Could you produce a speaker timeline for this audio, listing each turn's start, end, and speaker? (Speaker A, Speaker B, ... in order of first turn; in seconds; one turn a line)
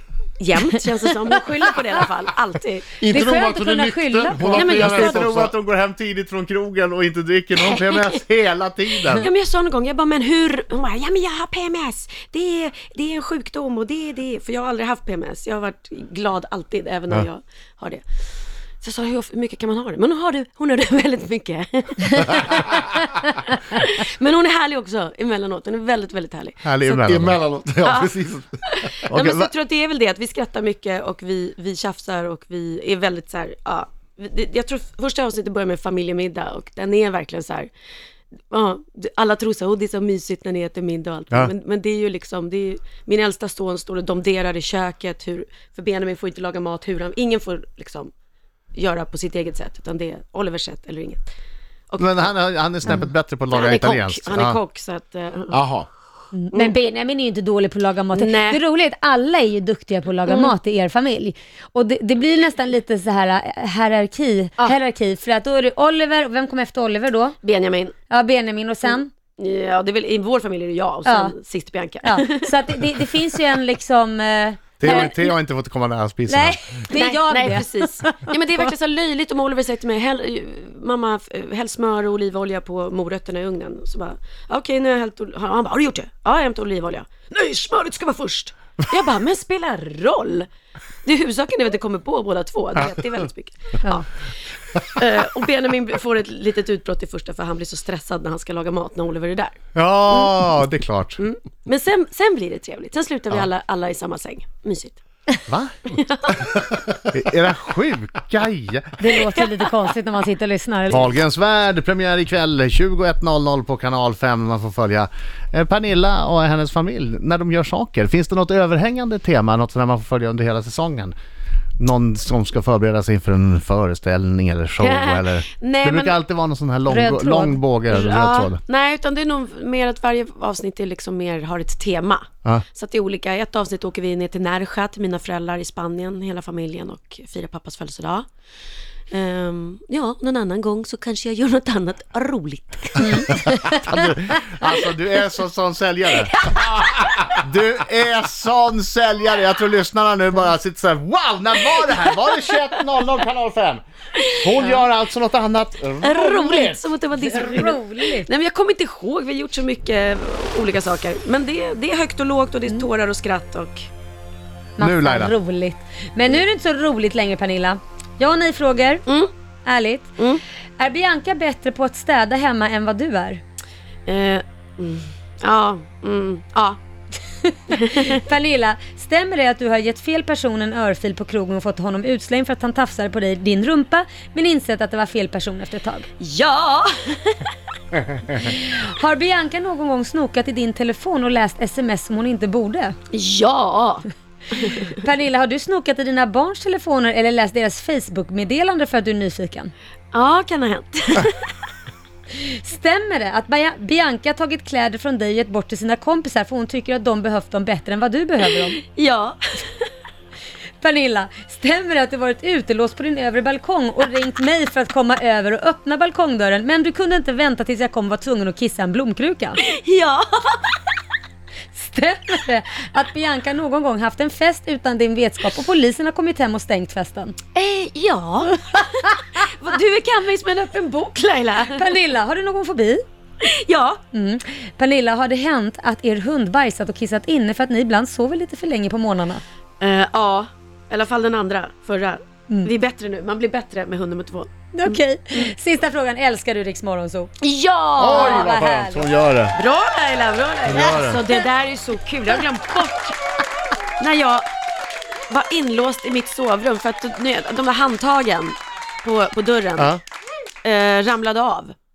Speaker A: 0.4-3.0
Speaker B: 3.0-5.5
Speaker C: 3.1-5.2
Speaker A: 4.5-5.0
Speaker D: 4.5-9.3
Speaker A: 9.1-18.0
Speaker A: 18.8-26.9
Speaker D: 26.6-27.4
Speaker B: 27.0-28.6
Speaker A: 27.8-28.1
Speaker A: 28.7-37.7
Speaker D: 29.1-29.5
Speaker A: 38.5-48.1
Speaker A: 48.7-51.3
Speaker A: 51.9-52.3
Speaker D: 52.0-54.6
Speaker A: 52.9-55.6
Speaker B: 55.5-55.9
Speaker C: 56.3-67.4
Speaker A: 58.1-58.6
Speaker A: 60.3-60.5
Speaker A: 67.4-67.9
Speaker C: 68.1-69.1
Speaker A: 69.4-72.5
Speaker C: 71.1-71.3
Speaker C: 72.0-75.3
Speaker D: 74.8-76.6
Speaker A: 74.8-75.1
Speaker C: 76.3-78.4
Speaker A: 76.9-90.5
Speaker A: 91.0-94.3
Speaker A: 94.8-100.6
Speaker D: 99.8-101.2
Speaker A: 101.2-105.0
Speaker D: 105.5-105.8
Speaker A: 105.9-106.6
Speaker D: 107.0-109.0
Speaker C: 109.0-111.1
Speaker D: 110.9-121.1
Speaker D: 121.8-128.6
Speaker A: 124.8-126.2
Speaker C: 126.9-127.6
Speaker A: 127.9-138.3
Speaker A: 139.1-143.5
Speaker C: 143.0-143.8
Speaker D: 143.7-146.7
Speaker D: 147.3-157.7
Speaker A: 156.0-163.9
Speaker C: 157.3-158.3
Speaker C: 164.8-169.1
Speaker D: 164.8-165.3
Speaker C: 169.7-170.1
Speaker C: 170.8-173.4
Speaker A: 174.1-176.8
Speaker C: 177.4-186.1
Speaker A: 177.7-178.2
Speaker A: 186.2-187.5
Speaker C: 188.3-193.0
Speaker A: 193.1-194.9
Speaker C: 194.8-199.7
Speaker A: 200.1-201.4
Speaker C: 202.3-208.8
Speaker A: 208.8-209.8
Speaker C: 210.8-219.6
Speaker A: 219.6-220.8
Speaker C: 221.7-227.3
Speaker A: 227.5-231.9
Speaker C: 231.7-233.0
Speaker A: 233.4-234.0
Speaker C: 234.1-239.4
Speaker A: 239.8-244.7
Speaker C: 244.7-247.3
Speaker A: 247.4-248.6
Speaker D: 248.0-249.6
Speaker C: 248.1-249.1
Speaker A: 249.5-253.2
Speaker D: 250.7-251.3
Speaker A: 254.0-254.5
Speaker A: 255.3-260.0
Speaker A: 260.6-261.7